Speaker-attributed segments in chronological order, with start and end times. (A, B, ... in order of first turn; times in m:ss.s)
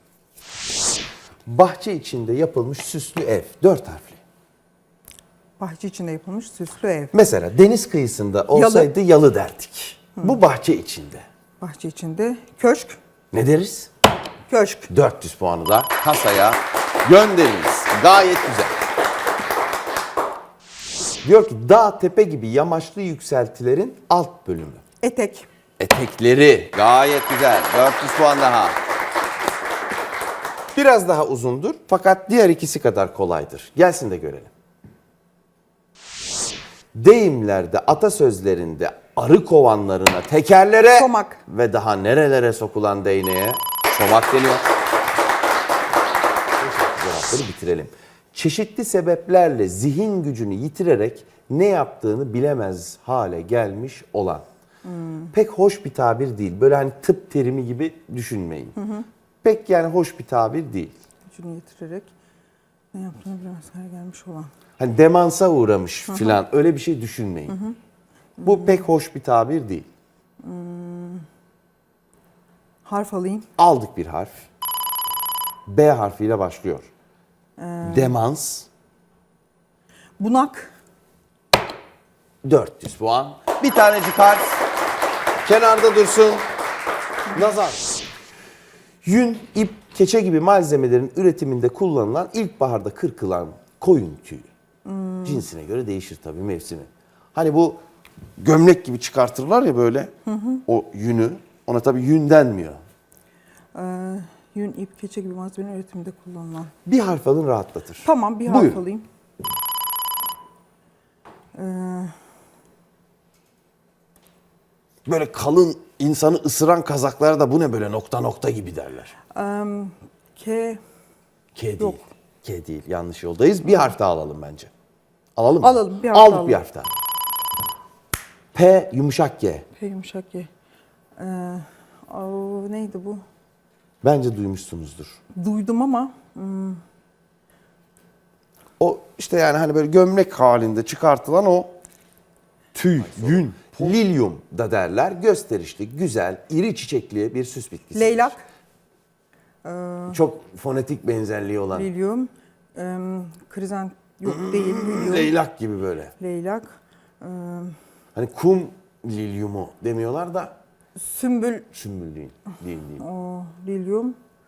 0:01.5-0:04.2 A
0:05.6-0:07.1 B
0:07.1-0:11.2 A
0:08.5-0:08.9 B
0:11.6-0:13.0 B
0:13.3-0:13.9 A
0:14.5-0:14.9 B
0:14.9-0:18.7 A
0:21.2-0:24.8 A
0:25.0-0:25.5 B
0:25.8-0:28.8 A
0:30.7-0:34.5 A
0:36.9-0:44.7 A
0:41.0-0:41.4 B
0:46.6-0:54.4 A
0:54.8-0:55.3 B
0:55.3-0:58.8 A
0:58.8-0:59.0 B
0:59.4-1:01.0 A
1:01.3-1:02.1 B
1:02.9-1:04.5 B
1:04.8-1:07.6 A
1:06.1-1:06.4 B
1:07.5-1:07.8 B
1:08.4-1:08.9 B
1:08.4-1:09.9 A
1:10.4-1:11.2 B
1:12.8-1:13.5 B
1:13.6-1:14.4 A
1:15.7-1:16.9 A
1:17.6-1:18.2 B
1:17.8-1:18.7 A
1:20.2-1:20.7 B
1:22.4-1:24.6 A
1:25.4-1:26.4 A
1:27.3-1:27.9 A
1:29.0-1:34.5 A
1:34.8-1:35.4 B
1:35.2-1:37.8 A
1:38.4-1:40.1 A
1:40.3-1:40.6 B
1:40.7-1:42.8 A
1:43.7-1:46.7 B
1:46.8-1:48.8 A
1:48.0-1:49.0 B
1:51.5-1:52.2 B
1:55.0-1:59.1 A
1:59.3-2:00.8 B
2:01.5-2:04.7 A
2:01.8-2:02.1 B
2:05.4-2:06.9 A
2:05.6-2:06.6 B
2:08.5-2:09.7 A
2:09.8-2:10.5 B
2:11.2-2:13.2 B
2:14.0-2:15.2 A
2:15.4-2:16.8 B
2:18.8-2:21.7 A
2:22.8-2:28.4 A
2:27.9-2:28.4 B
2:29.6-2:30.2 B
2:30.1-2:31.9 A
2:31.7-2:35.3 B
2:34.3-2:36.1 A
2:36.2-2:37.8 B
2:38.1-2:40.5 A
2:41.0-2:41.7 B
2:41.7-2:43.0 A
2:43.0-2:44.2 B